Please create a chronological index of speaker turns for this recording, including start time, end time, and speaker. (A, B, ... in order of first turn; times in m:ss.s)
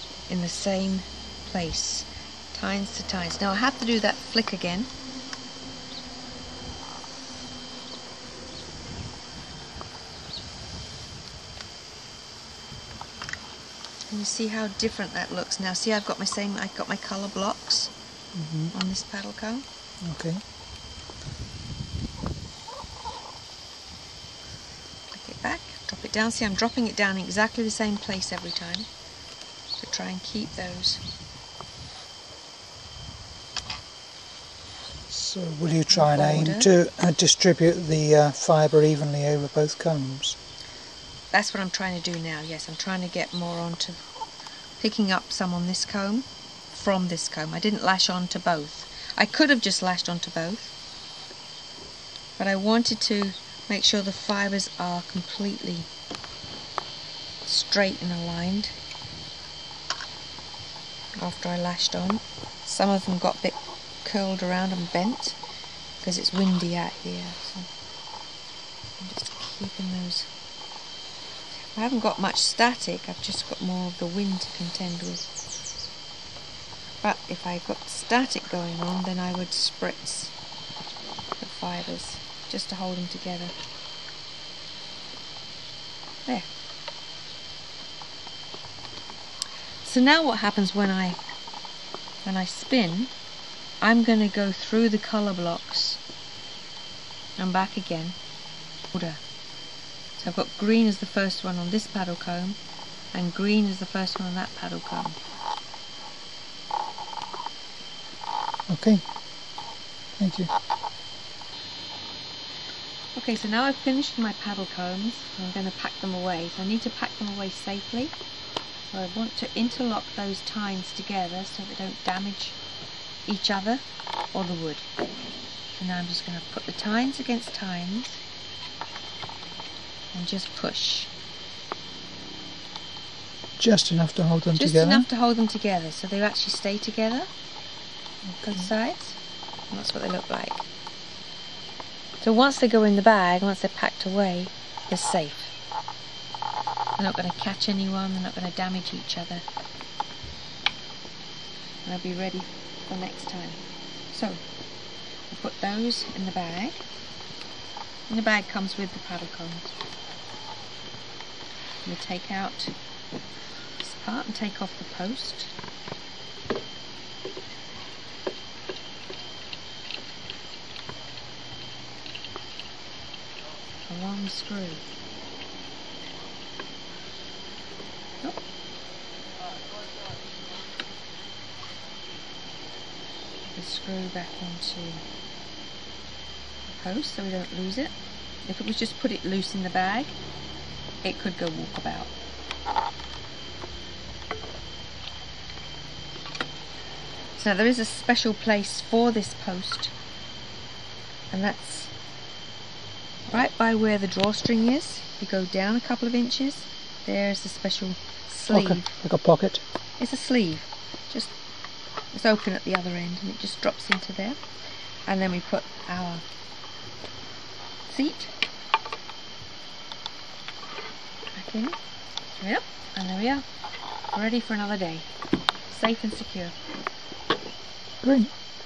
0:00.3-0:04.9 A
0:14.1-0:17.9 A
0:18.3-0:18.7 B
0:18.7-0:19.6 A
0:20.0-0:20.4 B
0:25.1-0:28.9 A
0:29.8-0:31.0 A
0:35.1-0:40.4 B
0:35.9-0:36.7 A
0:41.3-0:44.0 A
0:44.8-0:50.7 A
0:52.4-0:55.9 A
0:57.4-0:58.7 A
1:01.2-1:05.4 A
1:06.0-1:07.7 A
1:09.0-1:10.3 A
1:11.7-1:15.3 A
1:17.0-1:20.3 A
1:21.4-1:23.5 A
1:29.8-1:31.2 A
1:32.2-1:33.1 A
1:33.8-1:36.0 A
1:37.4-1:38.2 A
1:38.9-1:39.2 A
1:40.2-1:42.6 A
1:43.1-1:45.2 A
1:48.7-1:49.0 B
1:50.2-1:50.5 B
1:53.1-1:58.1 A
1:58.9-2:02.6 A
2:03.2-2:04.9 A
2:05.8-2:08.2 A
2:10.1-2:11.1 A
2:13.6-2:15.0 B
2:14.5-2:17.3 A
2:18.3-2:18.7 B
2:18.5-2:19.2 A
2:19.7-2:20.7 A
2:22.2-2:25.5 A
2:27.0-2:29.4 A
2:31.8-2:34.4 A
2:35.3-2:36.8 A
2:38.1-2:39.7 A
2:41.8-2:42.7 A
2:43.8-2:45.5 A
2:53.9-2:54.8 A
3:03.5-3:05.0 A
3:06.7-3:07.9 A
3:08.4-3:10.2 A
3:11.0-3:12.1 A
3:17.4-3:19.9 A
3:21.3-3:21.9 A
3:23.3-3:28.9 A
3:28.5-3:29.6 B
3:30.0-3:31.3 A
3:32.1-3:34.4 A
3:35.1-3:36.2 A
3:37.9-3:38.3 A
3:41.3-3:41.8 A
3:42.3-3:43.4 A
3:44.1-3:45.1 A
3:45.7-3:46.5 A
3:48.0-3:48.3 B